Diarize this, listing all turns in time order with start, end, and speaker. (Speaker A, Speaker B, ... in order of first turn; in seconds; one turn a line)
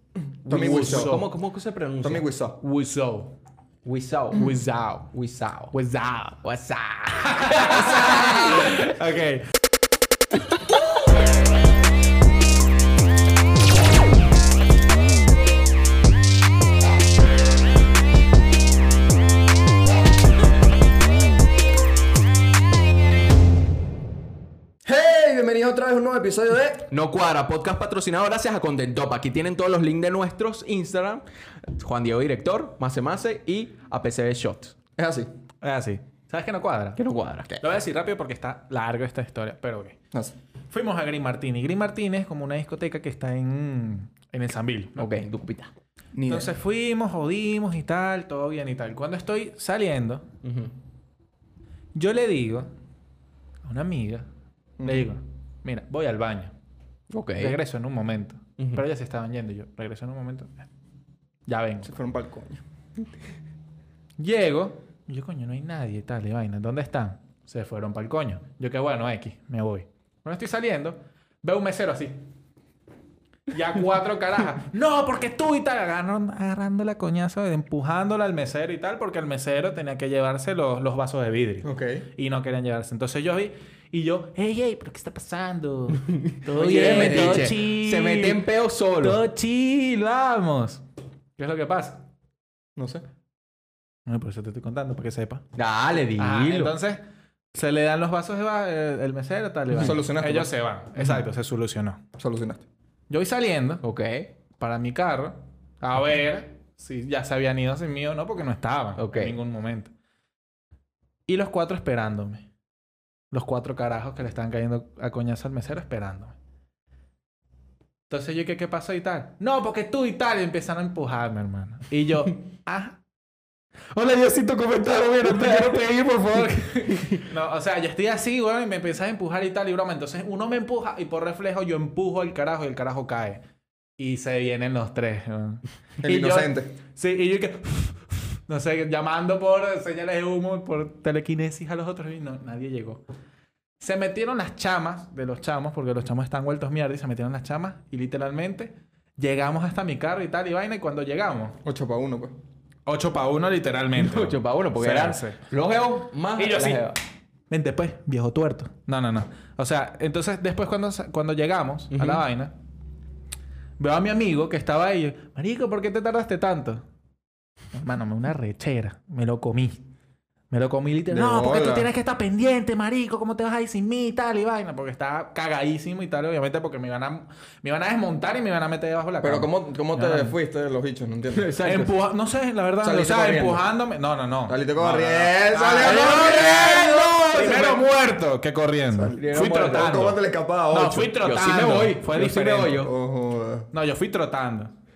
Speaker A: 0.4-1.2
Speaker B: 0.4-1.3
Speaker C: 0.6-2.2
Speaker A: 2.0-2.6
Speaker B: 2.6-3.3
Speaker C: 3.8-4.5
Speaker B: 4.3-5.1
Speaker C: 5.1-5.7
Speaker B: 5.7-6.4
Speaker C: 6.4-8.7
Speaker B: 7.2-9.4
Speaker A: 24.8-26.9
Speaker C: 26.9-31.2
Speaker C: 31.8-34.7
Speaker A: 35.0-35.3
Speaker B: 35.6-37.0
Speaker C: 37.0-37.6
Speaker B: 37.6-40.0
Speaker B: 40.7-45.1
Speaker C: 45.0-45.7
Speaker A: 46.1-46.5
Speaker B: 46.3-50.2
Speaker C: 50.4-50.7
Speaker B: 51.9-52.7
Speaker B: 53.6-54.2
Speaker A: 54.8-55.1
Speaker B: 54.8-56.5
Speaker C: 57.1-57.5
Speaker B: 57.4-60.5
Speaker B: 61.5-61.9
Speaker A: 61.8-62.6
Speaker B: 64.2-72.2
Speaker B: 73.5-88.4
Speaker A: 81.6-82.0
Speaker C: 86.5-89.2
Speaker A: 86.8-87.5
Speaker B: 89.0-90.8
Speaker B: 91.4-92.0
Speaker A: 92.8-93.0
Speaker B: 94.1-95.4
Speaker C: 95.5-96.7
Speaker B: 96.2-97.0
Speaker B: 97.5-102.0
Speaker A: 99.7-100.5
Speaker A: 102.2-102.6
Speaker B: 103.1-103.8
Speaker C: 103.8-104.3
Speaker B: 104.6-109.9
Speaker C: 109.0-109.4
Speaker B: 111.3-112.4
Speaker B: 113.3-116.3
Speaker B: 118.1-123.0
Speaker B: 123.9-133.4
Speaker B: 134.0-143.0
Speaker A: 136.0-136.8
Speaker B: 143.8-151.6
Speaker A: 151.6-152.3
Speaker B: 152.8-155.4
Speaker C: 153.9-156.9
Speaker B: 156.4-156.8
Speaker B: 157.5-162.5
Speaker C: 161.9-162.2
Speaker B: 163.8-166.8
Speaker B: 167.7-169.8
Speaker B: 170.5-180.3
Speaker A: 171.1-171.9
Speaker A: 179.2-181.5
Speaker C: 181.3-181.9
Speaker B: 181.6-192.8
Speaker A: 182.8-183.7
Speaker A: 184.5-187.5
Speaker C: 185.8-187.8
Speaker A: 188.9-191.2
Speaker C: 189.1-189.9
Speaker C: 191.2-192.9
Speaker A: 192.8-193.7
Speaker B: 193.7-194.7